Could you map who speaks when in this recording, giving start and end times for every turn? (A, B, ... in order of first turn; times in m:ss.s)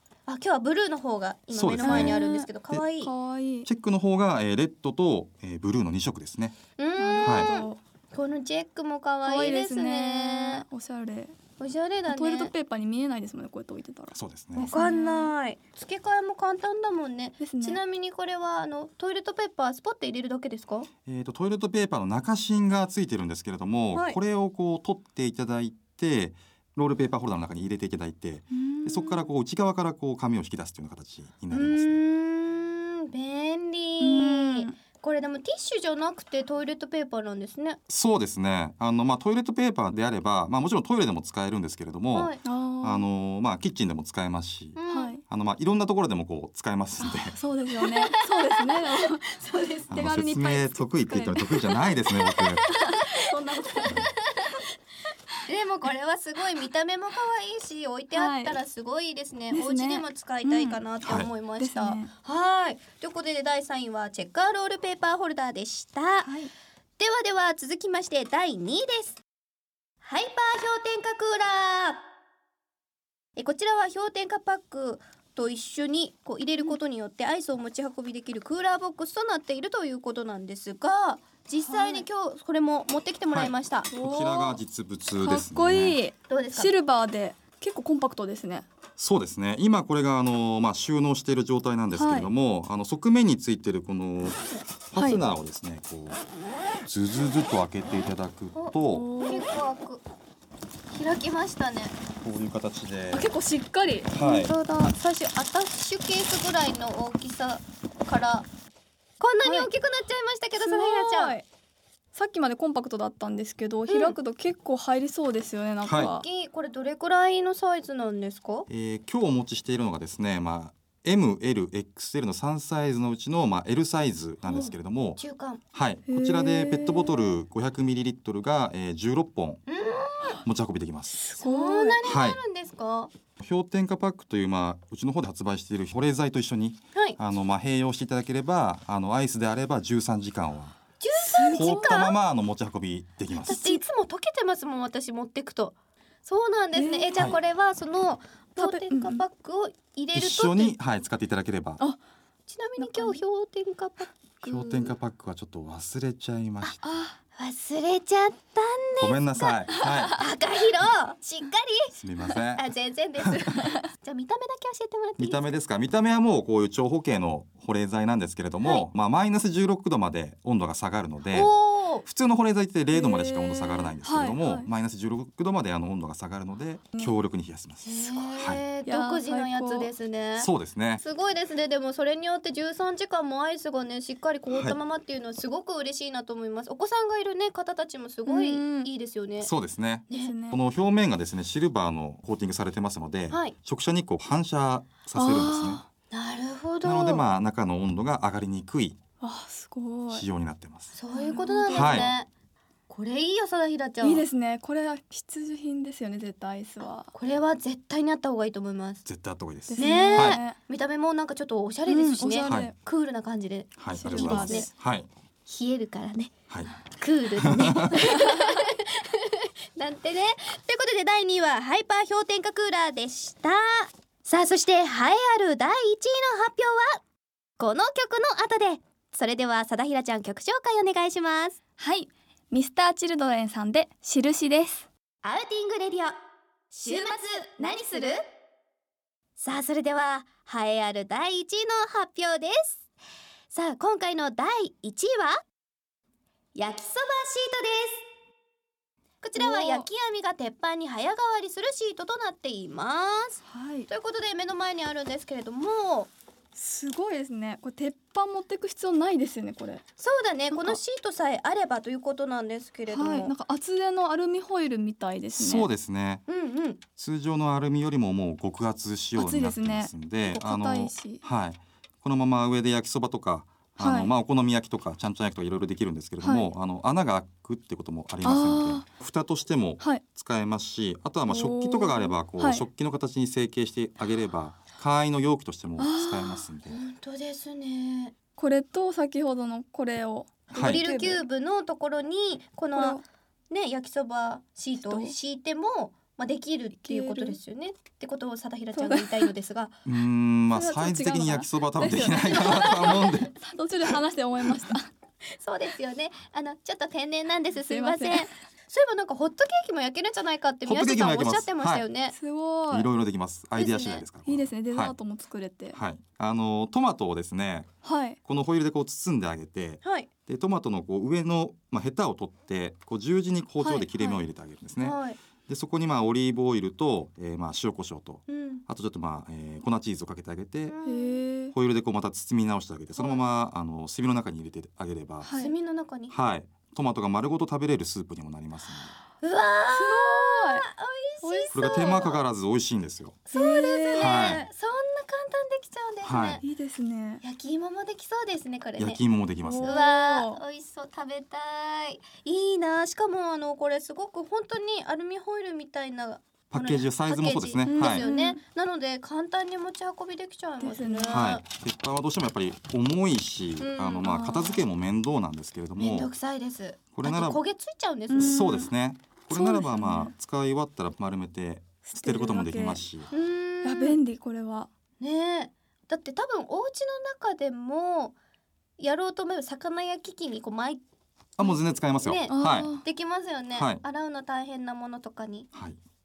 0:00.3-0:03.1 A
0:01.5-0:02.2 B
0:01.8-0:03.7 C
0:03.7-0:06.6 B
0:06.8-0:10.6 A
0:07.0-0:07.8 C
0:07.2-0:07.5 B
0:09.2-0:11.4 C
0:11.6-0:12.5 A
0:12.1-0:14.2 C
0:14.1-0:14.7 B
0:14.6-0:20.9 A
0:14.7-0:15.3 C
0:17.4-0:17.8 C
0:21.1-0:32.0 B
0:23.9-0:24.2 A
0:28.5-0:29.3 C
0:31.5-0:37.8 A
0:34.0-0:34.7 C
0:37.9-0:47.4 B
0:42.1-0:42.4 A
0:42.4-0:43.1 C
0:44.8-0:45.2 A
0:44.9-0:45.2 C
0:47.0-0:52.0 C
0:47.8-0:49.9 A
0:49.9-0:52.7 B
0:52.4-0:54.6 A
0:52.7-0:54.0 C
0:55.5-1:06.3 A
0:58.1-0:58.6 C
0:59.5-1:00.8 C
1:01.0-1:01.3 B
1:01.6-1:02.1 C
1:06.2-1:06.5 C
1:07.0-1:09.2 A
1:10.0-1:12.0 A
1:13.4-1:23.9 A
1:21.6-1:22.0 C
1:23.3-1:26.0 B
1:23.9-1:24.6 C
1:25.2-1:28.6 C
1:26.3-1:26.7 A
1:29.0-1:36.2 B
1:32.0-1:32.3 C
1:35.0-1:35.2 C
1:36.8-1:39.1 B
1:38.5-1:40.0 A
1:38.9-1:39.5 C
1:40.9-1:42.0 A
1:42.2-1:43.3 B
1:43.1-1:44.2 C
1:44.1-1:44.5 B
1:44.2-1:48.5 A
1:49.2-1:51.4 A
1:49.4-1:49.7 C
1:50.6-1:51.4 C
1:52.1-1:56.2 C
1:53.9-1:54.2 A
1:55.8-1:56.1 B
1:56.0-1:58.7 A
1:58.7-2:05.2 B
2:04.5-2:04.7 C
2:05.2-2:05.6 A
2:05.7-2:09.6 B
2:06.1-2:07.3 C
2:09.7-2:10.4 A
2:10.4-2:11.2 B
2:11.2-2:12.0 C
2:11.4-2:13.1 A
2:12.0-2:12.4 B
2:13.4-2:20.8 B
2:21.0-2:22.2 A
2:21.2-2:22.1 C
2:21.5-2:23.8 B
2:23.4-2:30.7 A
2:26.8-2:27.2 C
2:28.6-2:29.2 C
2:30.1-2:31.8 B
2:32.5-2:34.9 A
2:32.8-2:33.2 C
2:34.4-2:36.8 B
2:36.8-2:37.2 C
2:37.4-2:41.9 A
2:39.0-2:40.2 B
2:41.9-2:42.7 B
2:42.6-2:45.4 A
2:45.2-2:51.5 B
2:51.3-2:52.0 A
2:52.0-2:58.6 B
2:52.9-2:54.7 C
2:57.8-3:00.5 A
2:58.9-2:59.9 C
3:00.4-3:01.0 B
3:01.0-3:09.5 A
3:04.5-3:04.8 B
3:08.3-3:08.9 C
3:09.4-3:15.8 B
3:10.1-3:10.6 C
3:15.2-3:15.8 C
3:16.1-3:17.2 A
3:16.8-3:19.0 B
3:19.2-3:20.2 C
3:20.1-3:20.9 B
3:20.9-3:22.3 A
3:21.1-3:22.1 C
3:21.7-3:22.1 B
3:22.9-3:24.2 A
3:24.0-3:27.1 C
3:27.1-3:29.0 A
3:29.0-3:30.4 B
3:29.7-3:30.6 C
3:29.8-3:34.7 A
3:31.9-3:32.7 C
3:32.5-3:32.7 B
3:33.8-3:35.1 B
3:33.9-3:34.7 C
3:35.5-3:36.3 A
3:36.9-3:47.0 A
3:37.4-3:38.1 B
3:47.6-3:51.6 A
3:51.8-3:54.9 C
3:55.2-3:56.2 A
3:56.7-3:58.2 A
3:59.4-4:02.9 A
4:03.5-4:05.4 A
4:06.6-4:08.0 A
4:09.2-4:16.1 A
4:09.4-4:09.9 C
4:13.5-4:13.9 C
4:16.6-4:19.8 C
4:20.0-4:23.3 A
4:20.5-4:20.8 C
4:22.9-4:25.7 C
4:25.3-4:26.2 B
4:26.3-4:26.8 A
4:27.0-4:46.8 B
4:29.2-4:31.2 C
4:33.8-4:34.1 C
4:36.2-4:36.5 C
4:38.2-4:38.8 C
4:41.3-4:42.7 C
4:45.8-4:46.5 C
4:46.7-4:48.1 A
4:48.4-4:51.2 C
4:50.5-4:50.8 B
4:50.6-4:59.8 A
4:52.7-4:53.0 C
4:54.8-4:55.1 C
4:56.8-4:57.4 C
4:58.8-4:59.3 C
4:59.9-5:03.3 B
5:00.5-5:04.9 C
5:02.3-5:02.9 A
5:05.3-5:12.1 A
5:07.7-5:08.3 C
5:10.6-5:11.8 B
5:12.1-5:12.9 C
5:12.7-5:15.0 B
5:13.6-5:14.0 A
5:14.3-5:15.8 C
5:15.7-5:17.7 B
5:17.8-5:18.2 C
5:18.2-5:30.7 B
5:19.8-5:20.1 A
5:23.6-5:24.2 C
5:24.8-5:25.2 A
5:28.3-5:28.6 A
5:30.7-5:31.2 A
5:30.8-5:31.6 C
5:31.5-5:35.3 B
5:35.2-5:35.5 C
5:35.4-5:36.1 A
5:36.1-5:38.9 B
5:39.2-5:42.2 A
5:39.8-5:40.6 C
5:41.2-5:41.9 C
5:41.5-5:43.2 B
5:43.3-5:46.4 A
5:43.3-5:44.5 C
5:44.0-5:44.4 B
5:46.0-5:46.4 B
5:46.4-5:47.2 C
5:47.2-5:49.0 A
5:48.8-5:49.8 B
5:49.4-5:50.4 C
5:49.6-6:01.4 A
5:56.5-5:58.0 B
5:57.7-5:58.4 C
6:00.6-6:01.2 C
6:01.1-6:06.1 B
6:03.6-6:04.1 A
6:04.0-6:04.6 C
6:05.8-6:08.4 A
6:06.9-6:07.4 B
6:08.1-6:08.7 C
6:08.2-6:13.1 B
6:09.3-6:10.1 C
6:11.8-6:12.8 C
6:13.1-6:14.0 A
6:13.6-6:14.7 C
6:15.0-6:18.2 A
6:18.8-6:20.8 A
6:21.4-6:22.7 B
6:21.5-6:25.5 A
6:22.3-6:22.8 C
6:23.6-6:23.8 B